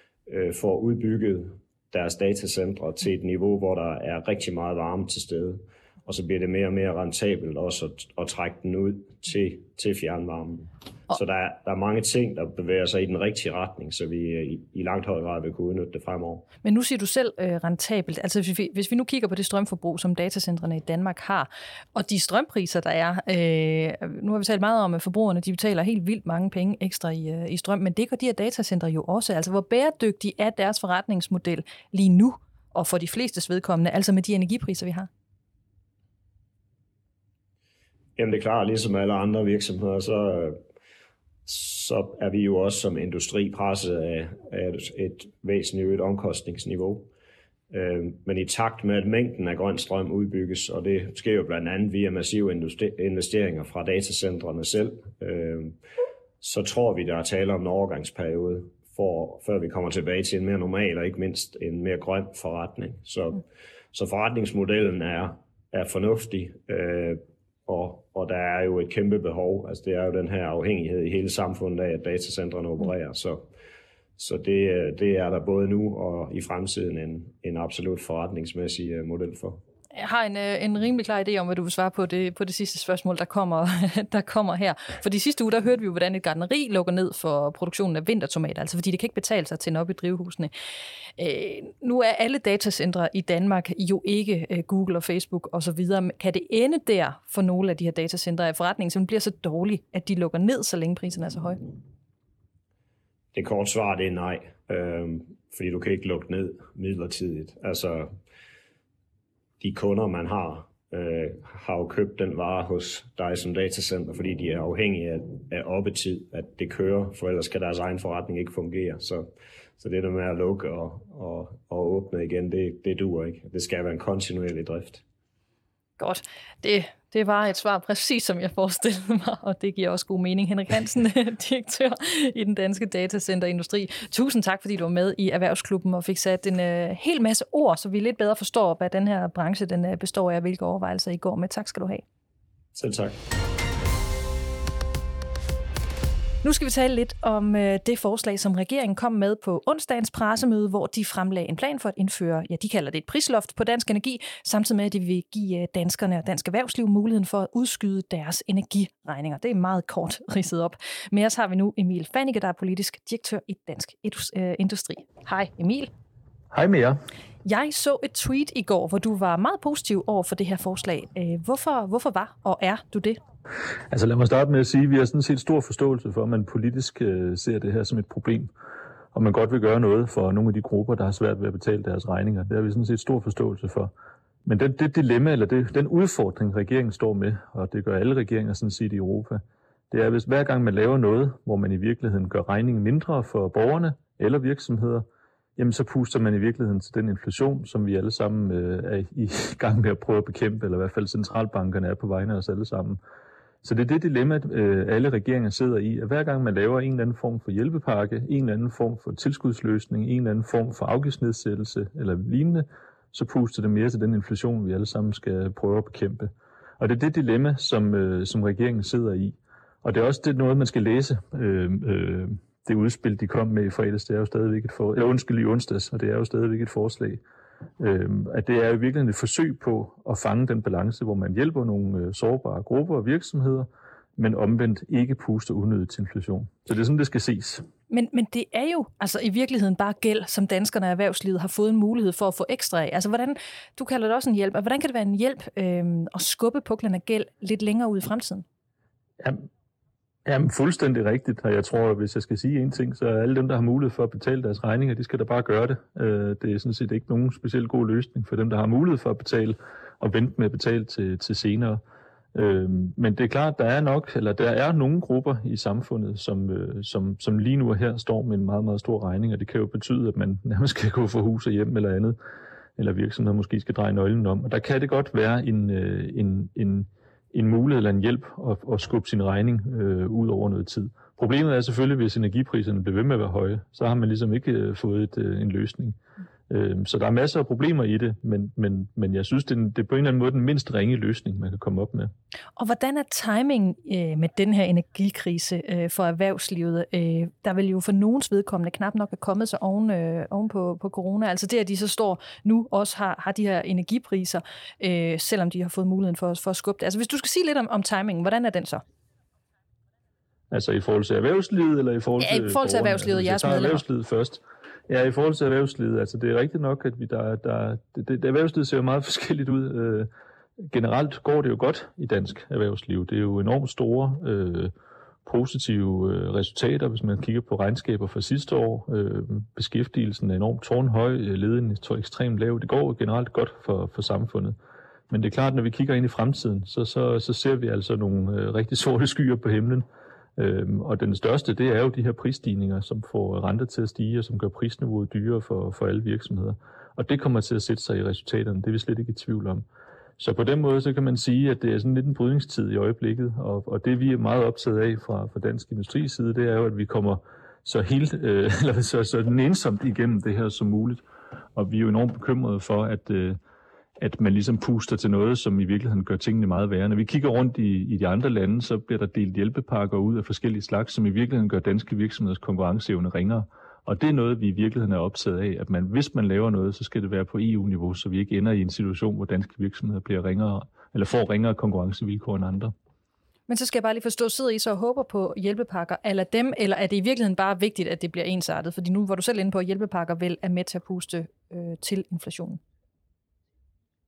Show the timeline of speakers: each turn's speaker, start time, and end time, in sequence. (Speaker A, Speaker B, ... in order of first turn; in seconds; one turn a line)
Speaker A: 0.3-16.5
Speaker B: 16.6-35.1
Speaker A: 38.2-40.6
Speaker A: 41.5-47.1
Speaker A: 47.7-55.8
Speaker A: 56.4-73.5
Speaker A: 74.2-79.6
Speaker B: 80.0-90.5
Speaker B: 91.2-101.6
Speaker A: 103.3-108.2
Speaker A: 109.6-125.0
Speaker B: 126.0-142.0
Speaker A: 142.8-143.2
Speaker B: 146.4-165.9
Speaker C: 166.5-167.0
Speaker B: 167.4-173.2
Speaker C: 173.9-178.5
Speaker C: 179.1-183.9
Speaker C: 184.4-195.1
Speaker C: 195.6-203.0
Speaker C: 203.6-227.2
Speaker C: 227.8-237.7
Speaker B: 237.9-248.4
Speaker C: 249.2-249.5
Speaker C: 250.3-261.8
Speaker C: 262.3-272.2
Speaker C: 272.8-286.0
Speaker C: 286.5-292.1
Speaker B: 292.6-308.8
Speaker C: 310.5-320.1
Speaker B: 312.2-313.8
Speaker C: 320.7-324.7
Speaker C: 325.2-334.6
Speaker C: 335.1-339.9
Speaker C: 340.4-349.6
Speaker C: 350.2-361.0
Speaker C: 361.5-363.4
Speaker C: 364.0-382.7
Speaker B: 383.5-392.6